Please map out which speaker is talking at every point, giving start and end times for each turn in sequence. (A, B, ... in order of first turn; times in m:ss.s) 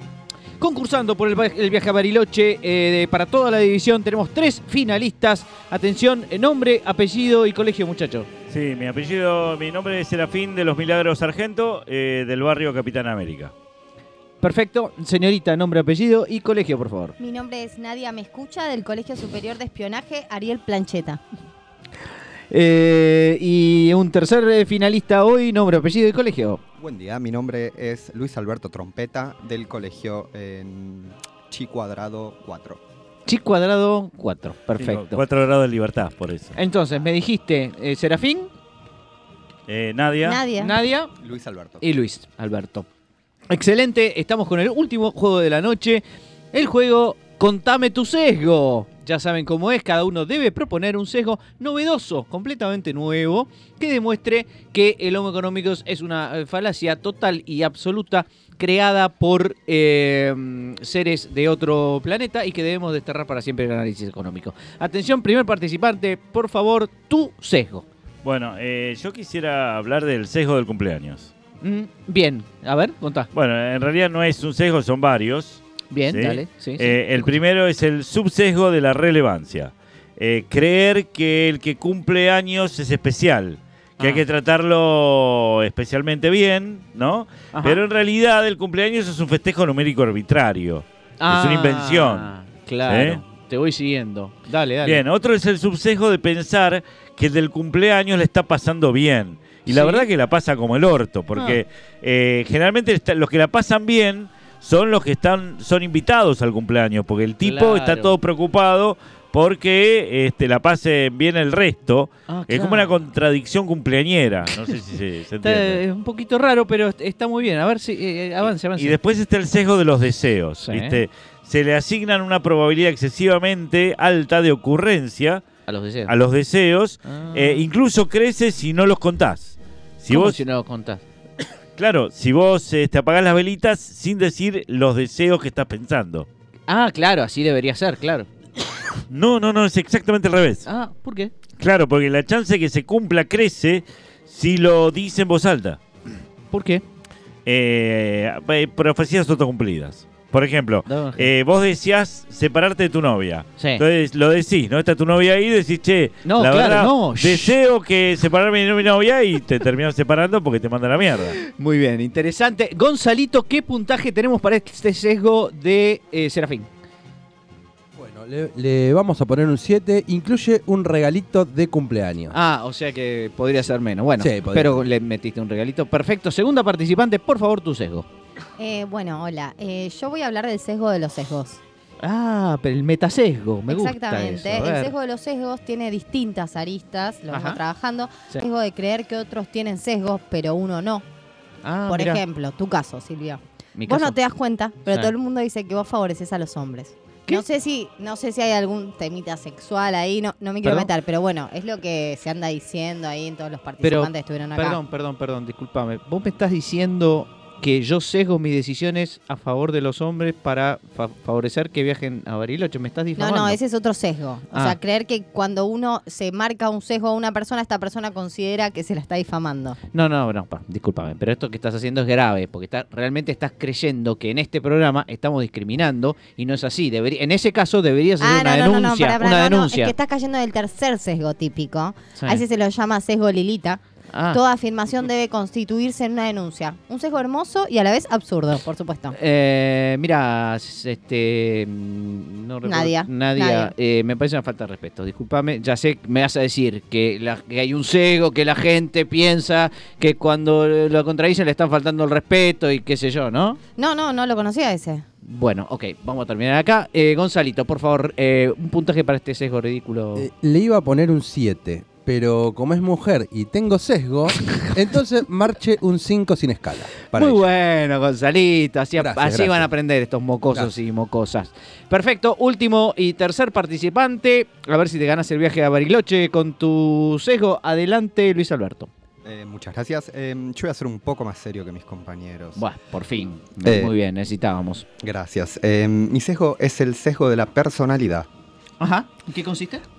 0:00.6-0:08.3 A
0:08.5-0:13.5 B
0:14.4-0:17.1 A
0:17.2-0:21.2 C
0:22.5-0:26.6 A
0:26.8-0:32.8 D
0:33.2-0:35.2 A
0:34.8-0:36.6 B
0:36.5-0:38.5 A
0:39.7-0:40.4 B
0:40.2-0:40.7 C
0:40.5-0:41.1 A
0:41.2-0:41.8 D
0:41.8-0:42.8 A
0:43.5-1:07.8 A
1:08.2-1:11.3 B
1:11.6-1:13.3 A
1:13.3-1:32.3 B
1:15.9-1:17.4 A
1:24.0-1:24.2 A
1:27.5-1:27.8 A
1:31.2-1:35.0 A
1:32.9-1:33.2 B
1:34.8-1:55.8 B
1:39.7-1:40.1 A
1:41.3-1:41.6 A
1:47.4-1:48.2 A
1:52.3-1:53.0 A
1:55.4-1:59.0 A
1:58.8-2:05.4 B
2:00.6-2:01.0 A
2:05.7-2:06.1 A
2:06.1-2:10.4 B
2:07.0-2:07.7 A
2:10.1-2:11.0 A
2:11.8-2:16.3 B
2:16.7-2:18.3 A
2:19.1-2:20.6 B
2:20.6-2:21.3 A
2:21.6-2:25.8 B
2:26.5-2:26.8 A
2:27.4-2:41.4 B
2:30.9-2:31.3 A
2:33.6-2:33.8 A
2:36.2-2:37.6 A
2:41.4-2:46.7 A
2:48.0-2:52.3 E
2:52.3-2:58.1 A
2:54.2-2:54.8 E
2:58.6-3:01.6 C
3:02.0-3:04.9 A
3:03.7-3:11.0 C
3:07.3-3:07.6 A
3:11.6-3:12.2 A
3:11.9-3:24.8 C
3:13.7-3:14.2 A
3:20.6-3:20.9 A
3:23.8-3:33.6 A
3:33.2-3:39.8 C
3:34.5-3:34.8 A
3:39.9-3:49.9 A
3:48.2-3:53.8 C
3:52.2-3:52.4 A
3:54.1-3:54.4 A
3:54.3-3:59.2 C
3:59.1-4:13.6 A
4:02.6-4:03.7 C
4:13.8-4:15.0 C
4:15.2-4:20.3 A
4:20.1-4:27.4 E
4:27.1-4:38.9 A
4:29.0-4:29.7 E
4:39.2-4:42.6 D
4:42.6-4:44.8 A
4:43.6-4:43.9 D
4:45.0-4:48.3 D
4:48.8-4:49.8 A